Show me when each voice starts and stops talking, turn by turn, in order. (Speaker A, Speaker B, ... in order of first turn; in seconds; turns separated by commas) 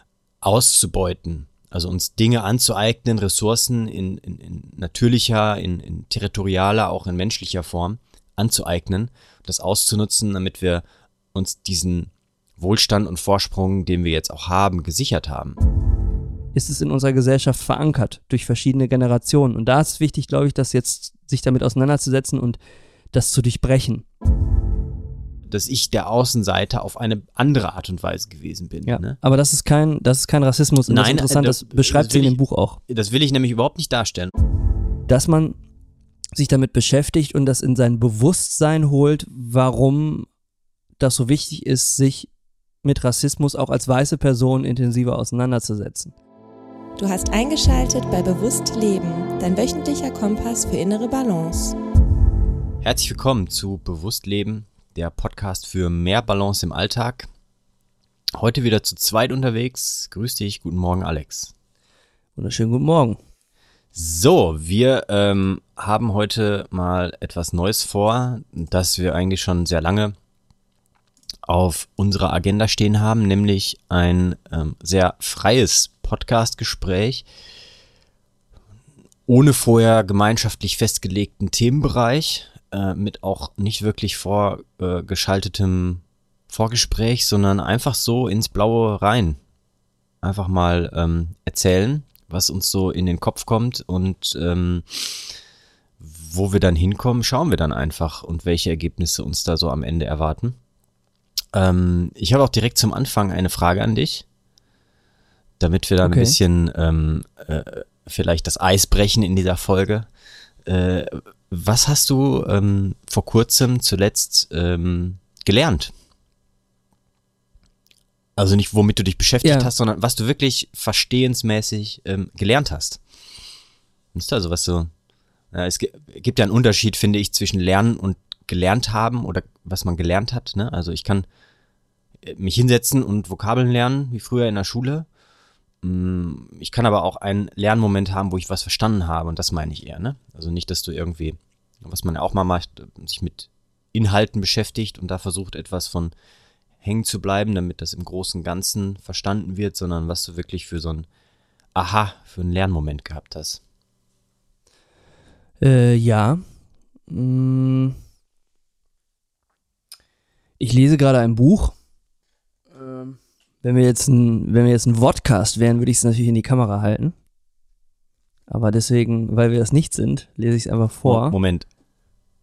Speaker A: 0.4-15.6, Speaker B: 16.5-22.6, Speaker B: 23.1-24.1, Speaker A: 25.5-29.2, Speaker B: 28.9-32.8, Speaker A: 30.9-32.4, Speaker A: 32.9-34.3, Speaker B: 35.1-35.6, Speaker B: 36.3-40.3, Speaker B: 41.0-42.3, Speaker B: 42.8-46.1, Speaker C: 47.0-51.8, Speaker A: 52.8-57.3, Speaker A: 58.4-61.5, Speaker B: 62.4-63.2, Speaker A: 64.0-70.2, Speaker A: 71.5-77.3, Speaker A: 79.3-89.4, Speaker A: 90.2-95.3, Speaker A: 96.0-100.6, Speaker A: 101.5-104.2, Speaker A: 105.6-110.1, Speaker B: 106.0-106.4, Speaker A: 110.7-115.9, Speaker A: 118.4-123.0, Speaker B: 119.4-119.7, Speaker A: 124.1-124.9, Speaker A: 125.5-131.3, Speaker A: 132.2-135.1, Speaker A: 135.8-146.1, Speaker A: 146.8-151.1, Speaker A: 151.8-153.6, Speaker B: 155.6-156.4, Speaker B: 157.1-158.0, Speaker B: 160.6-161.8, Speaker B: 162.7-167.2, Speaker B: 168.5-171.4, Speaker A: 171.1-171.7